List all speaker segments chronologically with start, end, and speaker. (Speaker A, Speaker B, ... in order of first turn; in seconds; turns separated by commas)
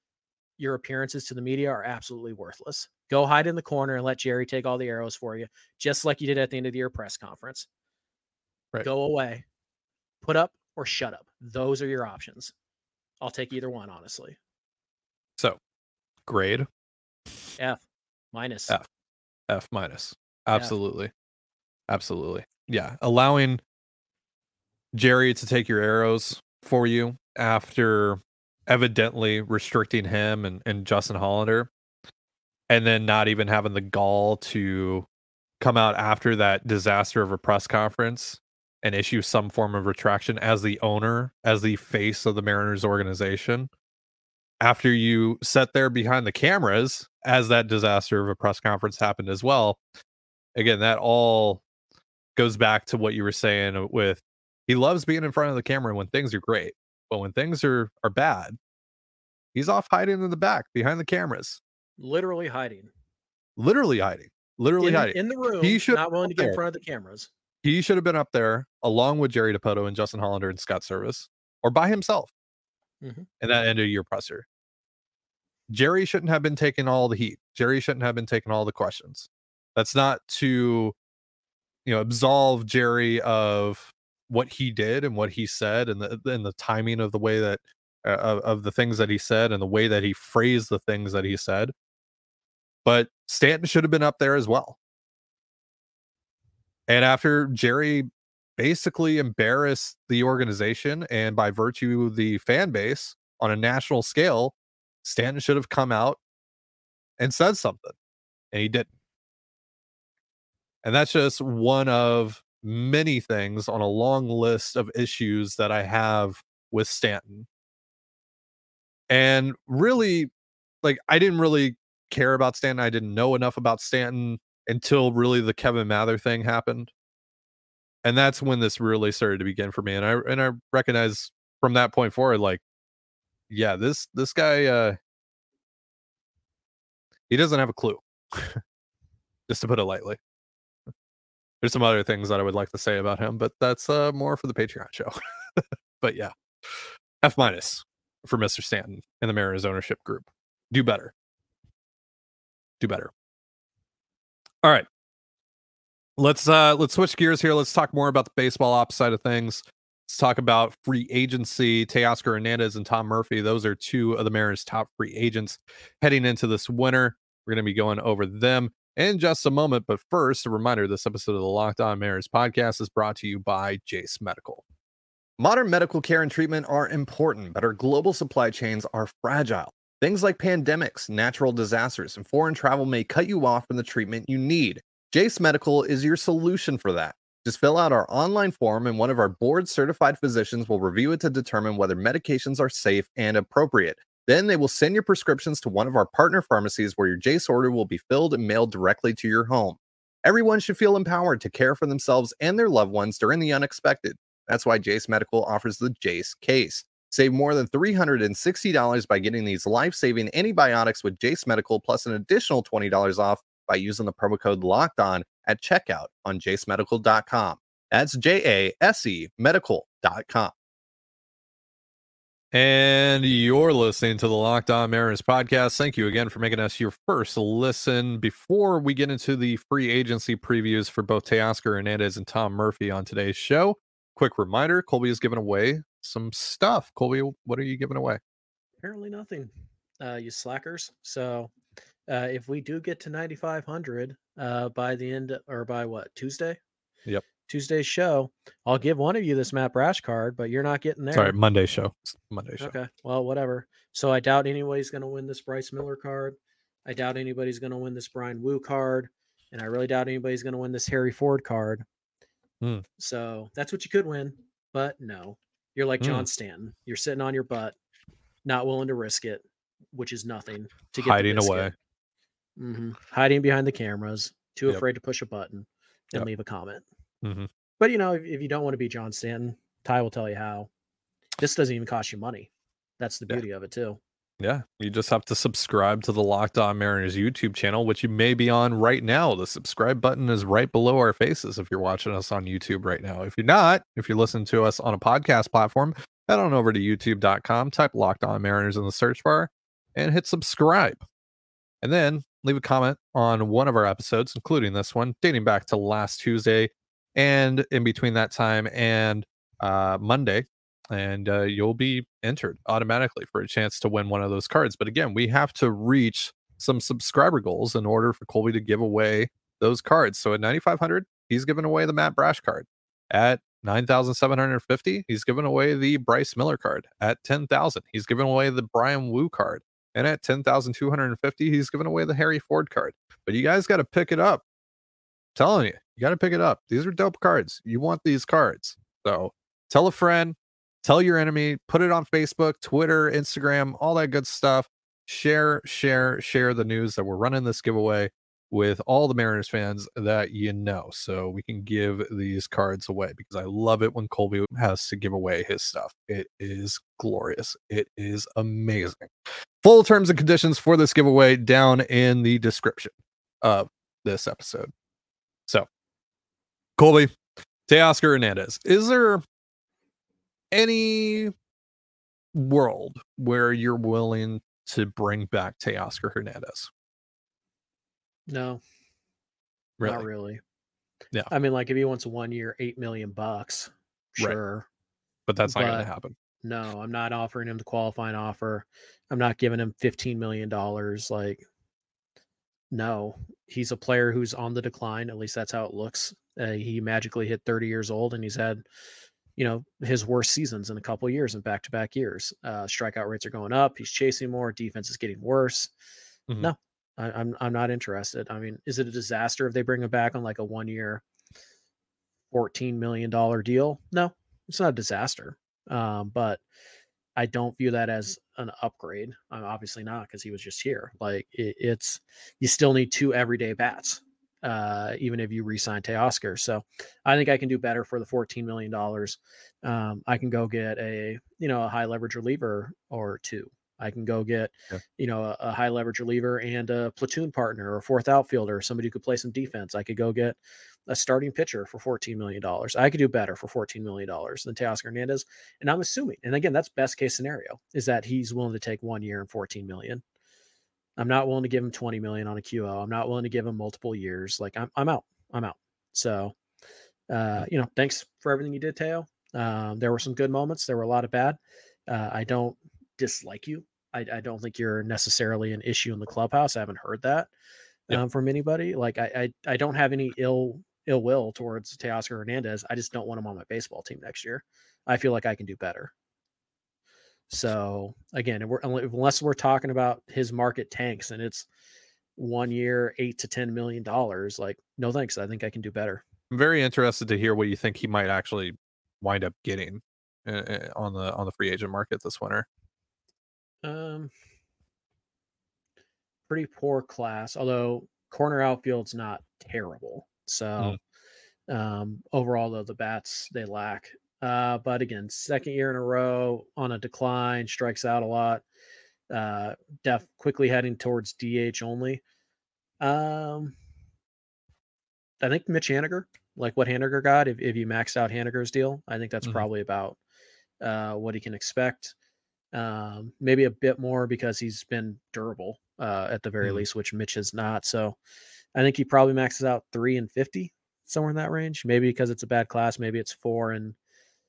Speaker A: 0.6-7.7, Speaker A: 8.8-9.4, Speaker A: 10.2-12.5, Speaker A: 13.2-14.4, Speaker B: 16.3-16.7, Speaker A: 17.6-18.8, Speaker B: 19.5-21.1, Speaker B: 21.9-23.6, Speaker B: 24.9-31.7, Speaker B: 32.7-35.1, Speaker B: 35.6-43.7, Speaker B: 44.6-49.8, Speaker B: 50.5-51.6, Speaker B: 52.4-58.6, Speaker B: 59.5-61.6, Speaker A: 62.0-62.9, Speaker B: 63.6-66.6, Speaker A: 64.8-67.3, Speaker B: 67.6-72.3, Speaker A: 73.0-73.3, Speaker B: 73.4-74.5, Speaker B: 75.7-80.9, Speaker B: 81.8-91.7, Speaker B: 92.8-94.8, Speaker B: 96.9-106.2, Speaker B: 107.2-107.9, Speaker B: 108.5-108.9, Speaker B: 110.8-117.5, Speaker B: 119.1-120.3, Speaker B: 120.8-126.9, Speaker B: 128.0-132.6, Speaker B: 133.5-135.0, Speaker B: 137.3-138.6, Speaker B: 139.5-140.2, Speaker B: 141.6-151.1, Speaker B: 152.8-153.1, Speaker B: 156.2-174.6, Speaker B: 175.4-220.5, Speaker B: 222.5-238.2, Speaker A: 238.8-241.5, Speaker A: 242.1-246.6, Speaker A: 247.5-251.3, Speaker B: 251.1-252.7, Speaker A: 252.6-261.8, Speaker A: 263.0-267.8, Speaker B: 266.0-266.3, Speaker A: 268.4-271.7, Speaker B: 271.0-271.7, Speaker A: 272.6-276.8, Speaker B: 277.2-277.5, Speaker A: 277.8-280.7, Speaker A: 281.4-284.0, Speaker B: 284.4-301.0, Speaker B: 301.8-334.4, Speaker B: 335.4-359.1, Speaker B: 359.6-364.7, Speaker B: 366.8-367.1, Speaker B: 367.7-369.2, Speaker B: 370.5-371.3, Speaker B: 372.3-376.7, Speaker A: 378.3-378.6, Speaker B: 379.8-380.1, Speaker A: 379.8-380.4, Speaker A: 381.3-384.7, Speaker B: 385.3-386.1, Speaker A: 385.4-385.9, Speaker A: 386.4-391.4, Speaker A: 392.7-398.6, Speaker A: 399.4-405.7, Speaker A: 406.4-411.0, Speaker A: 412.3-416.4, Speaker A: 417.1-450.0, Speaker A: 451.0-456.3, Speaker A: 457.1-467.3, Speaker A: 467.9-475.9, Speaker A: 477.3-481.5, Speaker A: 482.1-486.0, Speaker B: 486.3-492.5, Speaker A: 493.6-494.1, Speaker A: 496.3-500.8, Speaker A: 501.5-508.4, Speaker A: 509.1-512.0, Speaker A: 512.8-513.5, Speaker A: 515.2-520.0, Speaker A: 520.6-521.9, Speaker A: 522.5-528.0, Speaker A: 528.5-533.8